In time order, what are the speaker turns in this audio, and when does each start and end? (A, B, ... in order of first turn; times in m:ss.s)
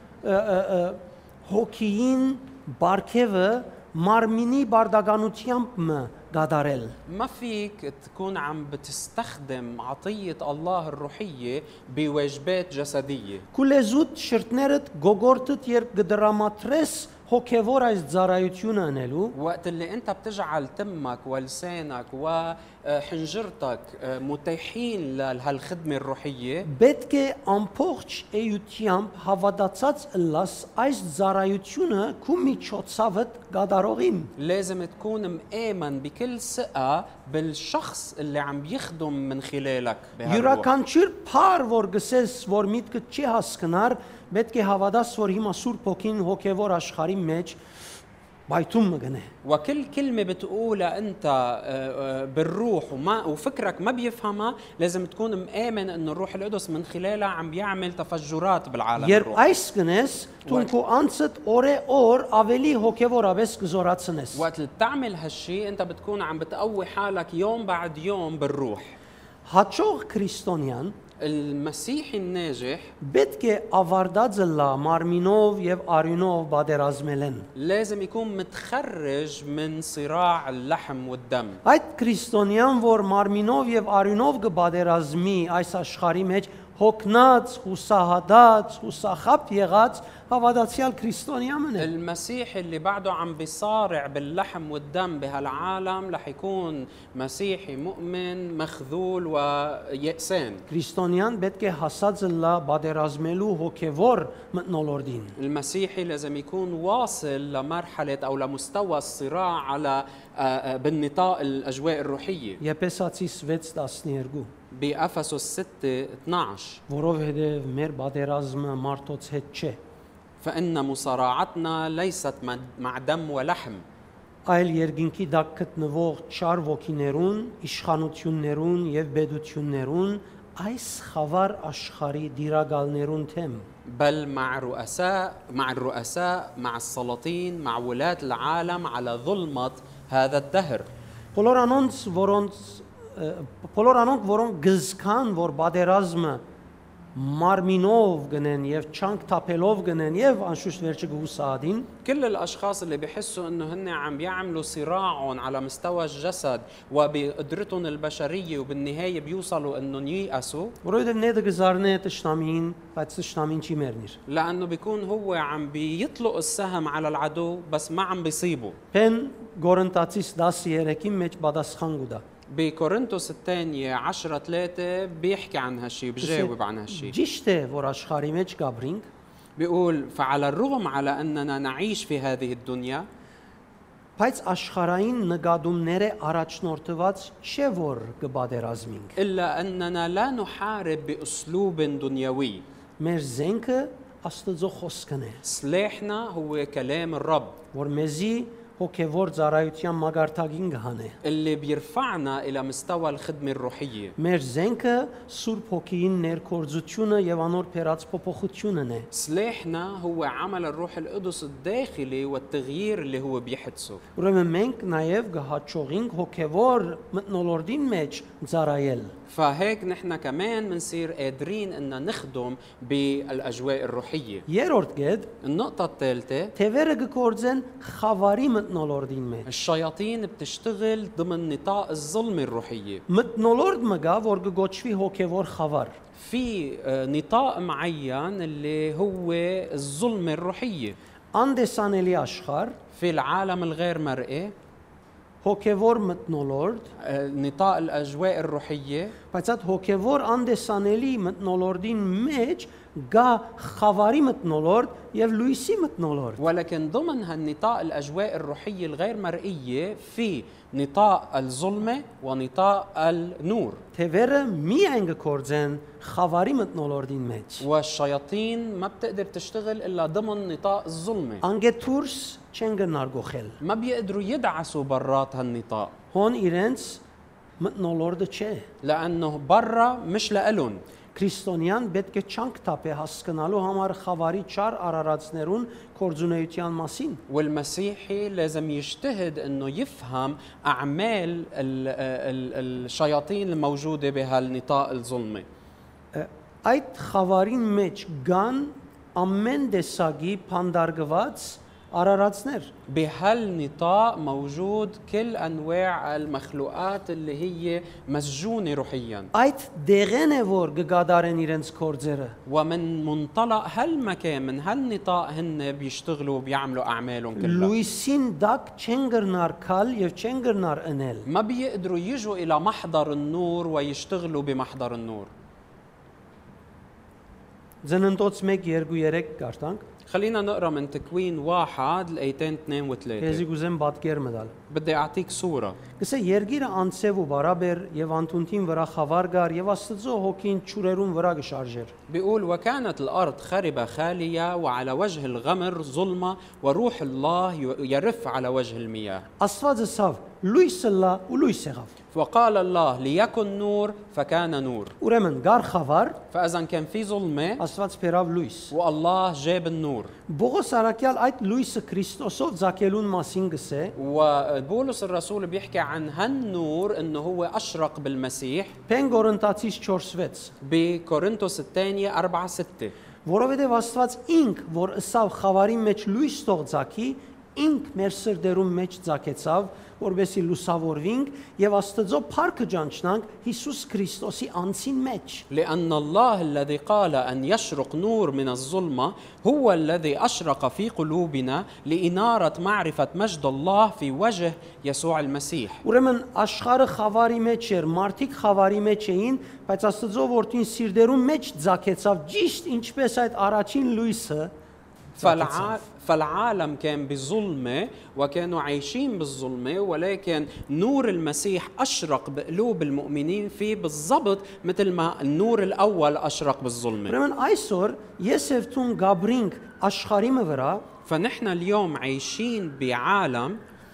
0:00.2-0:07.0 A
0:07.1-0:13.4 B
0:13.5-0:19.4 A
0:19.3-0:26.7 B
0:26.6-0:34.3 A
0:34.4-0:40.7 B
0:40.2-0:47.6 A
0:48.5-0:49.3 A
0:49.4-0:59.4 B
0:59.0-1:04.5 A
1:00.5-1:00.7 B
1:04.3-1:09.0 B
1:09.5-1:11.0 A
1:11.2-1:12.9 B
1:13.0-1:17.5 A
1:17.6-1:21.6 B
1:21.6-1:31.9 A
1:31.8-1:40.6 B
1:40.7-1:45.4 A
1:45.4-1:52.6 B
1:52.6-1:54.5 A
1:54.7-1:56.8 B
1:56.9-1:59.8 A
2:00.4-2:03.8 B
2:04.5-2:13.7 A
2:13.8-2:20.9 B
2:21.4-2:26.4 A
2:27.2-2:31.9 A
2:32.0-2:40.8 B
2:40.8-2:44.2 A
2:44.3-2:48.8 B
2:48.9-2:52.2 A
2:52.5-2:57.2 B
2:56.2-2:59.1 A
2:59.6-3:03.1 B
3:04.2-3:09.2 A
3:09.2-3:12.6 B
3:13.0-3:15.4 A
3:15.4-3:17.6 B
3:17.7-3:21.2 A
3:21.2-3:24.2 B
3:24.2-3:29.1 A
3:29.1-3:34.0 B
3:34.2-3:39.1 A
3:39.3-3:44.5 B
3:44.5-3:45.3 A
3:45.4-3:46.5 B
3:46.6-3:49.5 A
3:49.5-3:53.0 B
3:53.1-3:56.0 A
3:56.2-4:01.0 B
4:01.3-4:02.8 A
4:02.9-4:04.5 B
4:05.4-4:06.9 A
4:07.0-4:09.2 B
4:09.3-4:16.4 A
4:16.4-4:23.8 B
4:24.0-4:27.7 A
4:27.6-4:31.4 B
4:31.4-4:33.6 A
4:33.6-4:35.9 B
4:36.1-4:37.0 A
4:37.6-4:38.7 A
4:38.8-4:40.8 B
4:41.2-4:47.2 A
4:47.3-4:55.5 B
4:56.1-5:02.7 A
5:02.9-5:09.3 B
5:09.3-5:12.4 A
5:12.5-5:17.7 B
5:17.4-5:21.3 A
5:21.3-5:25.3 B
5:27.8-5:29.8 A
5:30.1-5:33.4 B
5:33.2-5:34.5 A
5:34.7-5:35.8 B
5:36.0-5:41.9 A
5:42.1-5:49.3 B
5:49.4-5:51.9 A
5:52.1-5:54.9 B
5:55.0-5:56.2 A
5:56.3-5:57.6 B
5:57.6-5:58.7 A
5:58.7-6:00.1 B
6:00.3-6:04.0 A
6:04.0-6:08.8 B
6:08.9-6:10.5 A
6:10.6-6:12.9 B
6:13.3-6:25.4 A
6:25.5-6:35.8 B
6:35.8-6:44.5 A
6:45.2-6:45.8 A
6:45.2-6:57.2 B
6:57.1-7:00.8 A
7:01.1-7:03.6 B